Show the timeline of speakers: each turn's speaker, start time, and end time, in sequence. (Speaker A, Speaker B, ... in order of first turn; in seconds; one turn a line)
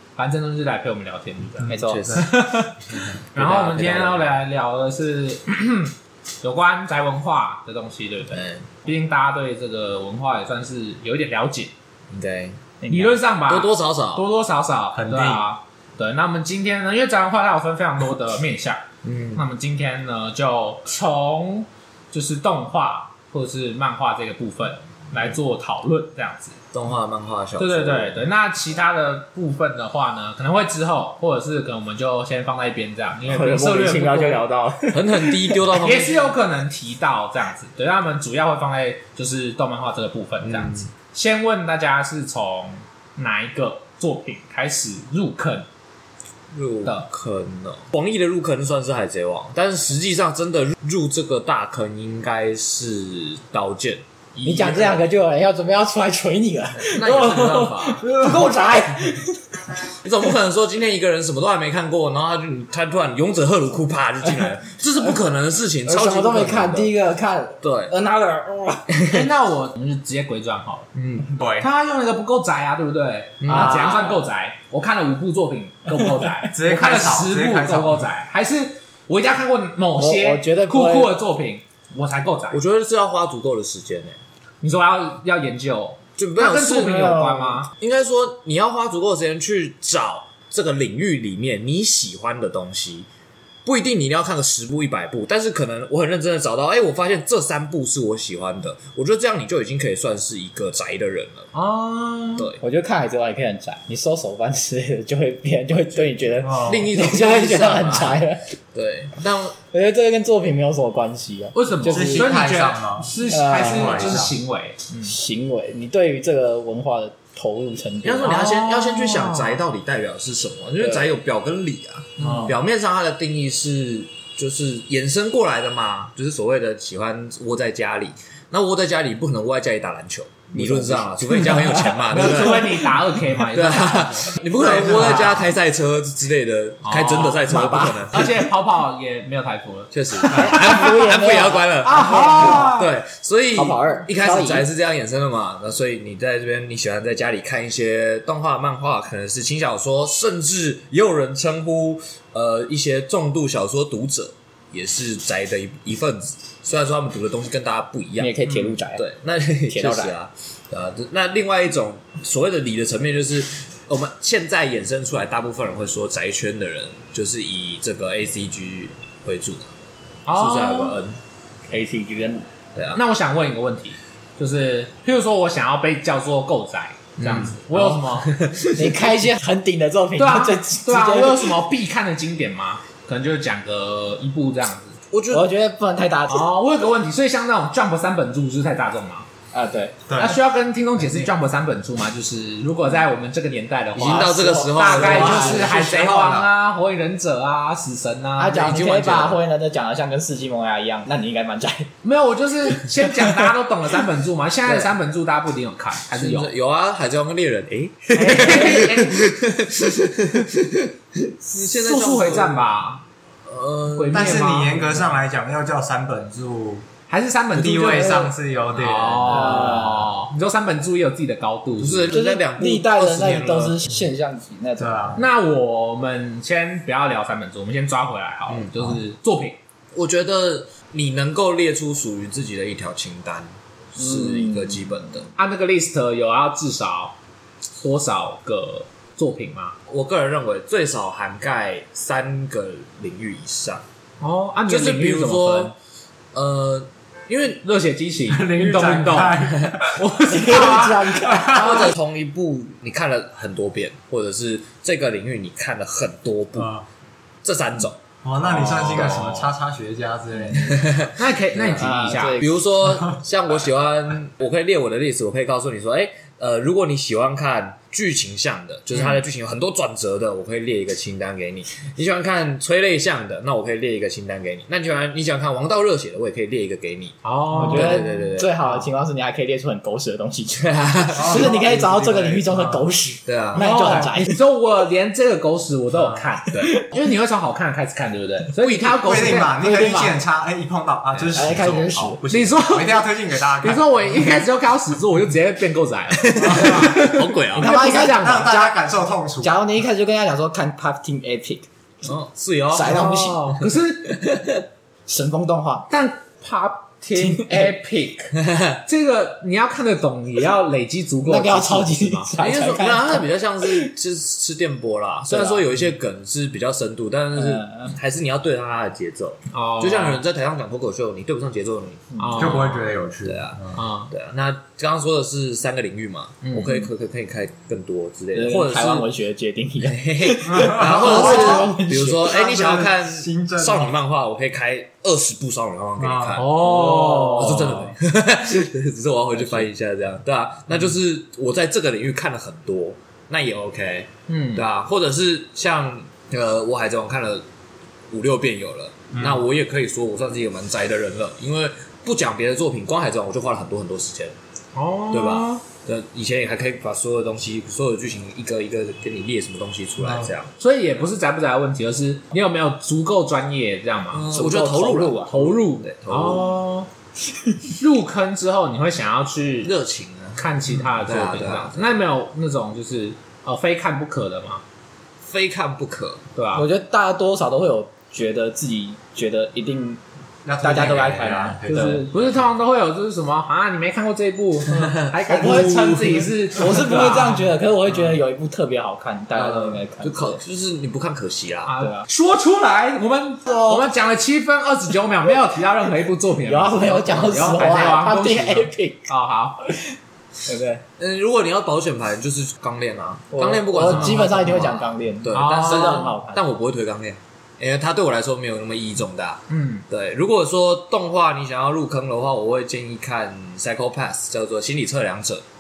Speaker A: 0.2-2.8
Speaker B: 1.7-2.2
Speaker C: 1.7-2.4
Speaker A: 3.3-11.7
Speaker C: 3.4-4.3
Speaker C: 8.3-8.7
Speaker C: 12.1-12.6
Speaker B: 12.8-13.2
Speaker A: 12.9-18.8
Speaker C: 13.5-14.2
Speaker D: 14.9-15.5
Speaker C: 19.0-19.4
Speaker A: 19.3-26.6
Speaker C: 26.7-28.3
Speaker A: 27.6-34.4
Speaker B: 33.3-35.6
Speaker C: 34.9-36.3
Speaker A: 35.8-45.7
Speaker C: 40.4-40.9
Speaker C: 46.5-54.0
Speaker A: 54.3-55.0
Speaker B: 54.4-59.4
Speaker C: 56.8-58.3
Speaker C: 60.0-66.9
Speaker B: 64.3-65.2
Speaker B: 65.8-69.0
Speaker C: 67.6-67.9
Speaker C: 68.9-69.3
Speaker A: 69.1-70.9
Speaker C: 70.9-71.3
Speaker D: 71.3-71.7
Speaker A: 71.6-82.6
Speaker C: 73.4-74.0
Speaker B: 73.5-74.2
Speaker B: 75.9-76.3
Speaker D: 76.5-78.1
Speaker B: 80.0-81.1
Speaker C: 82.5-84.2
Speaker A: 84.6-87.7
Speaker C: 86.2-87.1
Speaker B: 86.8-87.6
Speaker C: 87.7-93.1
Speaker C: 93.6-101.5
Speaker A: 101.5-102.5
Speaker C: 102.4-102.6
Speaker B: 102.6-108.4
Speaker D: 106.4-106.8
Speaker C: 106.7-109.6
Speaker B: 109.7-112.4
Speaker A: 111.5-115.1
Speaker D: 111.8-114.4
Speaker B: 113.2-114.3
Speaker B: 115.0-118.4
Speaker C: 118.0-132.7
Speaker A: 118.2-119.6
Speaker B: 120.8-121.1
Speaker A: 122.2-122.5
Speaker D: 122.2-122.5
Speaker B: 130.5-133.0
Speaker A: 131.6-135.3
Speaker C: 133.5-138.3
Speaker B: 134.6-135.5
Speaker D: 134.6-135.3
Speaker A: 136.8-140.8
Speaker B: 137.4-138.3
Speaker C: 139.9-169.7
Speaker B: 140.3-142.8
Speaker A: 141.8-142.9
Speaker B: 143.5-144.7
Speaker B: 158.2-159.1
Speaker B: 159.7-160.2
Speaker A: 170.2-171.0
Speaker C: 170.3-171.2
Speaker B: 171.7-172.4
Speaker C: 172.8-173.0
Speaker A: 172.9-178.3
Speaker C: 177.2-179.1
Speaker B: 178.7-181.6
Speaker A: 180.2-185.0
Speaker C: 185.1-185.5
Speaker B: 185.3-186.5
Speaker A: 186.3-189.3
Speaker B: 189.5-190.2
Speaker D: 190.1-190.4
Speaker A: 190.1-198.9
Speaker C: 193.9-195.9
Speaker B: 194.0-195.8
Speaker D: 195.0-196.5
Speaker B: 198.4-201.9
Speaker C: 198.6-199.4
Speaker A: 202.0-206.5
Speaker C: 204.7-204.9
Speaker C: 206.1-212.7
Speaker A: 208.1-209.3
Speaker A: 211.5-213.0
Speaker C: 213.5-214.5
Speaker A: 213.9-215.0
Speaker D: 214.1-216.8
Speaker A: 217.1-222.1
Speaker D: 217.5-219.9
Speaker B: 219.2-220.1
Speaker C: 221.8-223.8
Speaker B: 222.1-225.1
Speaker D: 224.8-225.2
Speaker A: 225.2-229.6
Speaker C: 228.5-229.0
Speaker C: 229.9-235.3
Speaker B: 234.0-235.0
Speaker A: 235.4-237.2
Speaker A: 237.8-239.8
Speaker C: 239.9-243.8
Speaker A: 244.2-245.7
Speaker C: 244.7-245.7
Speaker C: 246.3-247.6
Speaker A: 247.6-251.3
Speaker D: 248.3-250.0
Speaker B: 250.3-251.9
Speaker D: 250.5-251.8
Speaker C: 251.4-256.7
Speaker D: 256.6-256.9
Speaker C: 257.4-258.0
Speaker D: 258.2-261.1
Speaker A: 258.4-259.5
Speaker C: 258.5-259.1
Speaker C: 260.5-278.9
Speaker A: 261.1-262.4
Speaker B: 261.6-262.6
Speaker D: 262.8-263.2
Speaker A: 277.2-278.1
Speaker B: 277.5-284.4
Speaker C: 280.6-281.6
Speaker D: 281.1-282.9
Speaker C: 283.3-284.1
Speaker A: 283.6-289.6
Speaker D: 285.9-286.3
Speaker B: 286.5-287.1
Speaker C: 288.6-289.1
Speaker D: 289.0-294.2
Speaker B: 289.3-290.2
Speaker C: 291.1-291.5
Speaker B: 291.3-292.2
Speaker A: 292.3-298.5
Speaker C: 296.1-297.9
Speaker D: 296.3-297.1
Speaker B: 297.5-298.8
Speaker D: 297.9-299.5
Speaker B: 299.4-301.7
Speaker C: 302.0-304.6
Speaker B: 302.7-303.6
Speaker A: 302.9-304.1
Speaker B: 305.1-305.9
Speaker A: 305.9-312.3
Speaker B: 307.1-307.7
Speaker C: 308.4-308.8
Speaker B: 311.2-313.9
Speaker C: 312.4-322.0
Speaker B: 315.3-315.7
Speaker B: 317.4-317.9
Speaker A: 319.5-320.2
Speaker B: 322.1-322.6
Speaker A: 322.2-322.9
Speaker D: 322.4-323.8
Speaker C: 323.2-329.1
Speaker A: 323.7-324.1
Speaker A: 326.4-326.9
Speaker B: 328.3-332.3
Speaker C: 329.8-347.4
Speaker D: 330.4-333.9
Speaker D: 336.0-336.4
Speaker A: 336.4-337.9
Speaker B: 337.0-337.4
Speaker A: 344.3-344.6
Speaker C: 348.1-354.4
Speaker D: 349.1-349.4
Speaker A: 354.8-355.6
Speaker C: 355.1-360.5
Speaker D: 360.0-360.3
Speaker A: 360.6-364.3
Speaker C: 364.1-366.5
Speaker B: 364.3-365.3
Speaker A: 365.3-366.9
Speaker A: 367.8-369.7
Speaker C: 369.6-372.0
Speaker A: 370.4-374.6
Speaker C: 375.2-376.3
Speaker A: 376.4-376.7
Speaker B: 376.5-380.0
Speaker D: 380.4-382.1
Speaker B: 380.6-382.0
Speaker A: 381.7-387.5
Speaker C: 384.7-386.3
Speaker B: 385.3-390.4
Speaker C: 389.4-391.7
Speaker A: 391.6-399.7
Speaker B: 393.5-393.8
Speaker B: 396.4-399.1
Speaker B: 400.4-400.8
Speaker C: 401.0-415.4
Speaker B: 403.3-406.4
Speaker A: 403.8-404.7
Speaker A: 405.3-406.1
Speaker A: 409.5-409.9